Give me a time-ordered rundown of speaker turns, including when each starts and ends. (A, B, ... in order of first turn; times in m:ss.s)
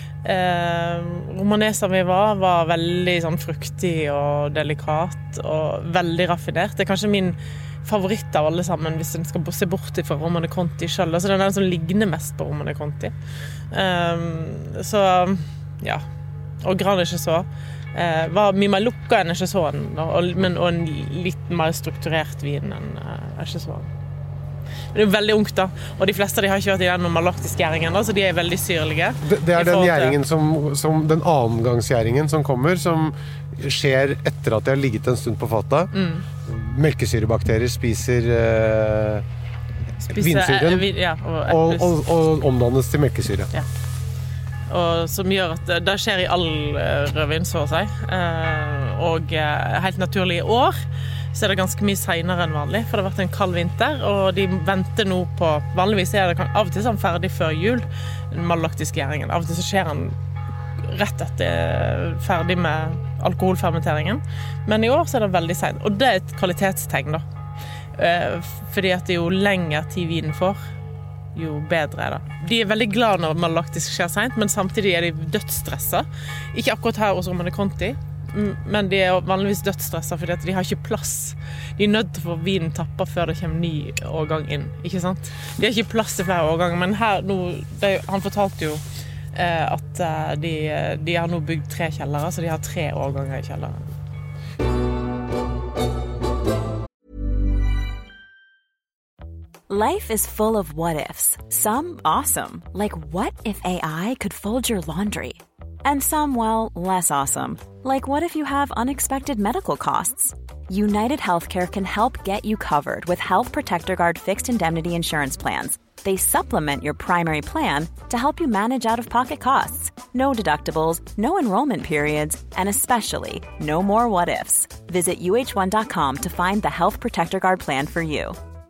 0:00.2-0:13.1 A
0:13.7-0:16.0 A
0:16.6-0:23.9 A
0:24.9-0:30.2 A
0:29.2-0:35.9 B
0:35.9-0:36.3 A
0:36.4-0:39.3 B
0:40.0-0:42.0 A
0:40.1-0:40.9 B
0:41.5-0:43.5 B
0:44.7-0:50.8 A
0:51.3-1:00.2 A
1:00.8-1:07.2 A
1:08.0-1:10.6 A
1:11.4-1:28.8 A
1:29.3-1:33.9 A
1:39.7-2:08.4 C